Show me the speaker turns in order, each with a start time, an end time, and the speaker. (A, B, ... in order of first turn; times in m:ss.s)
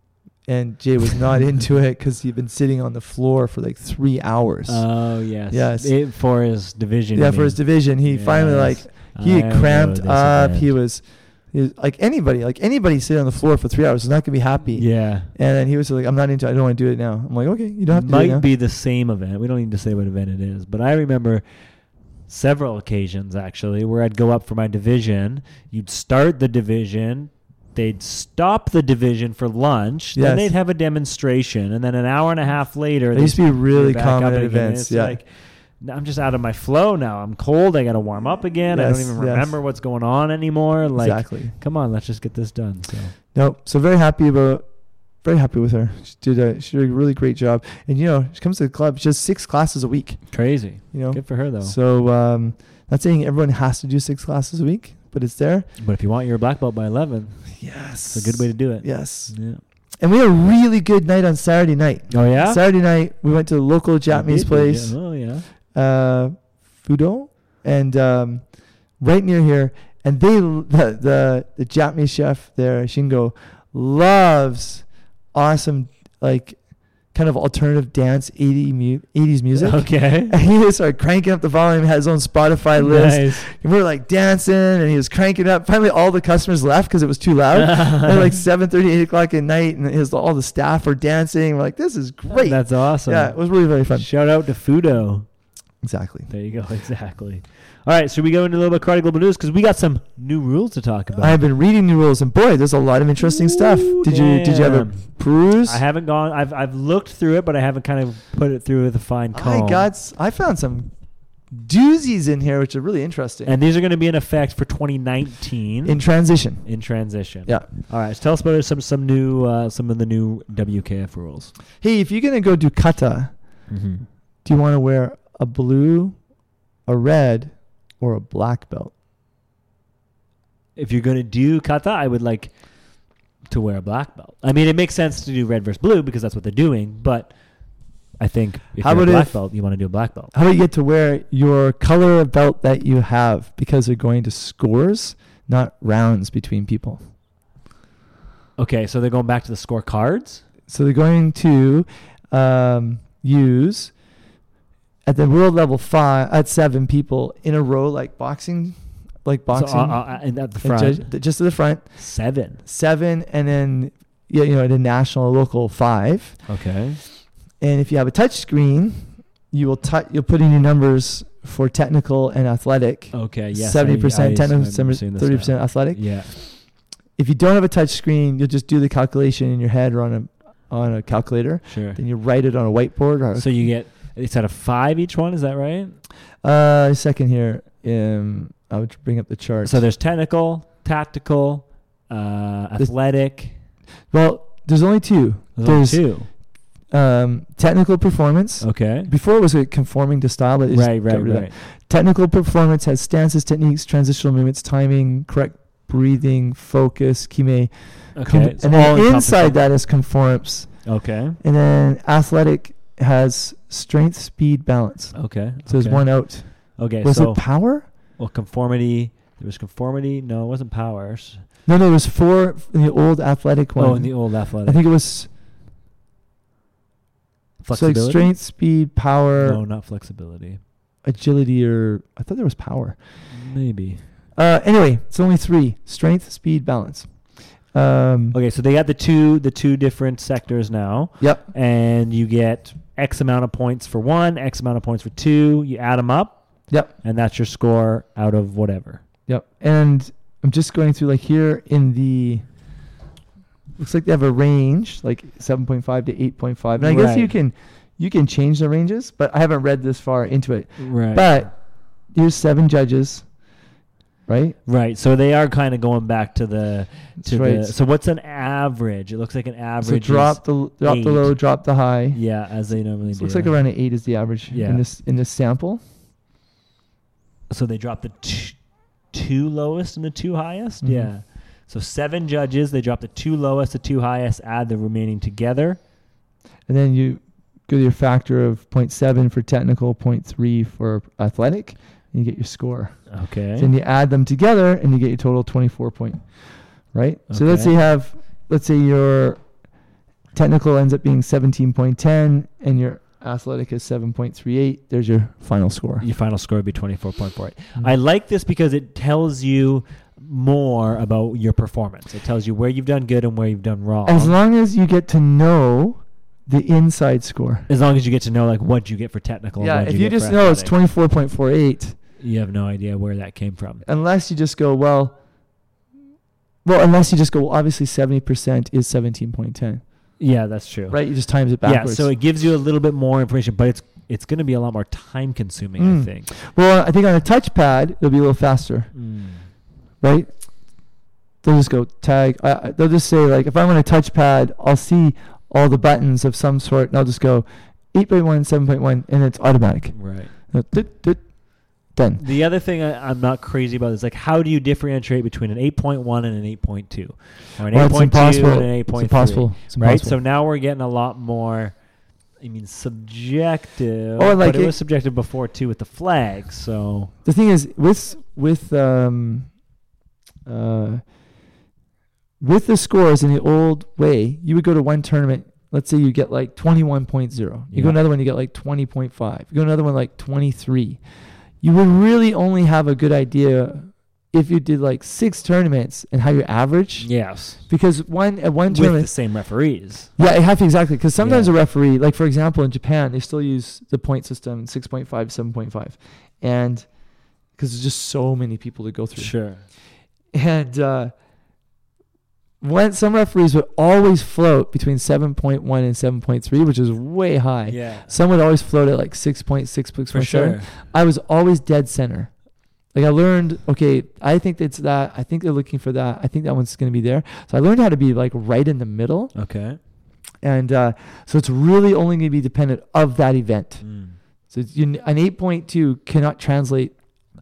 0:00.4-0:06.0 A
0:04.7-0:10.8 B
0:07.1-0:18.4 A
0:14.7-0:15.3 B
0:17.9-0:21.4 B
0:22.3-0:43.1 B
0:30.1-0:30.5 A
0:33.1-0:35.2 A
0:38.7-0:39.5 A
0:41.0-0:41.5 A
0:43.3-0:55.7 A
0:50.3-0:51.7 B
0:55.8-0:59.6 B
0:57.6-0:59.4 A
1:00.0-1:05.1 A
1:02.1-1:02.6 B
1:04.1-1:05.4 B
1:05.7-1:16.6 A
1:17.1-1:34.1 A
1:19.5-1:20.3 B
1:22.8-1:23.5 B
1:27.5-1:28.4 B
1:32.3-1:35.3 B
1:35.8-1:36.3 A
1:36.3-1:41.4 B
1:41.2-1:45.8 A
1:43.2-1:49.9 B
1:49.3-1:50.9 A
1:51.5-1:53.5 A
1:53.4-1:56.0 B
1:55.8-1:56.7 A
1:56.6-2:01.5 B
2:01.8-2:03.4 A
2:03.7-2:04.0 B
2:04.4-2:06.2 A
2:06.8-2:08.9 A
2:10.8-2:12.6 B
2:13.4-2:17.3 B
2:18.2-2:20.3 B
2:18.8-2:19.4 A
2:20.3-2:27.0 A
2:28.6-2:30.4 B
2:30.7-2:33.9 A
2:35.0-2:41.9 A
2:39.5-2:41.1 B
2:42.0-2:42.6 B
2:42.6-2:46.4 A
2:46.5-2:47.0 B
2:47.6-3:03.6 A
2:53.1-2:56.3 B
3:01.7-3:02.0 B
3:03.3-3:06.0 B
3:06.4-3:09.8 A
3:09.6-3:13.6 B
3:14.1-3:16.0 A
3:15.6-3:16.3 B
3:16.9-3:30.9 A
3:18.6-3:19.1 B
3:20.7-3:21.5 B
3:28.2-3:29.6 B
3:30.8-3:31.4 B
3:31.4-3:37.8 A
3:35.1-3:41.4 B
3:41.6-3:45.3 A
3:43.8-3:44.8 B
3:47.6-3:48.3 B
3:47.7-3:49.6 A
3:49.4-3:50.6 B
3:51.0-3:53.0 A
3:53.3-3:54.0 B
3:54.4-3:58.4 A
3:58.3-4:06.4 B
4:01.2-4:01.4 A
4:07.0-4:09.0 B
4:09.3-4:12.4 A
4:13.8-4:21.6 A
4:16.8-4:17.3 B
4:20.8-4:21.3 B
4:22.1-4:23.3 A
4:24.3-4:24.6 A
4:24.6-4:31.4 B
4:27.2-4:27.7 A
4:29.8-4:32.2 A
4:32.1-4:33.6 B
4:33.1-4:35.8 A
4:34.5-4:34.8 B
4:37.5-4:45.8 B
4:40.8-4:41.1 A
4:46.7-4:59.4 A
4:53.1-4:53.7 B
4:57.3-4:57.7 B
5:00.3-5:06.0 A
5:06.0-5:14.4 B
5:14.0-5:17.7 A
5:17.7-5:20.7 B
5:19.6-5:22.0 A
5:22.2-5:23.8 B
5:23.8-5:25.1 A
5:26.6-5:29.8 A
5:30.2-5:31.0 B
5:30.9-5:32.1 A
5:31.6-5:36.3 B
5:35.8-5:38.9 A
5:38.9-5:39.4 B
5:40.0-5:40.3 A
5:41.4-5:51.3 A
5:49.9-5:50.3 B
5:51.8-5:52.2 A
5:52.2-6:01.8 B
5:57.7-6:00.2 A
6:02.4-6:07.1 B
6:04.2-6:04.8 A
6:07.2-6:09.5 A
6:10.4-6:11.0 A
6:12.4-6:21.0 A
6:17.7-6:18.0 B
6:21.6-6:29.1 A
6:27.0-6:27.6 B
6:28.7-6:30.1 B
6:30.2-6:36.9 A
6:31.2-6:31.5 B
6:37.6-6:39.3 A
6:39.2-6:39.6 B
6:40.3-6:41.1 A
6:42.6-6:52.3 A
6:47.7-6:48.1 B
6:50.1-6:50.7 B
6:52.9-6:59.3 A
6:59.3-6:59.8 B
7:00.4-7:03.8 A
7:03.8-7:04.2 B
7:04.5-7:06.9 A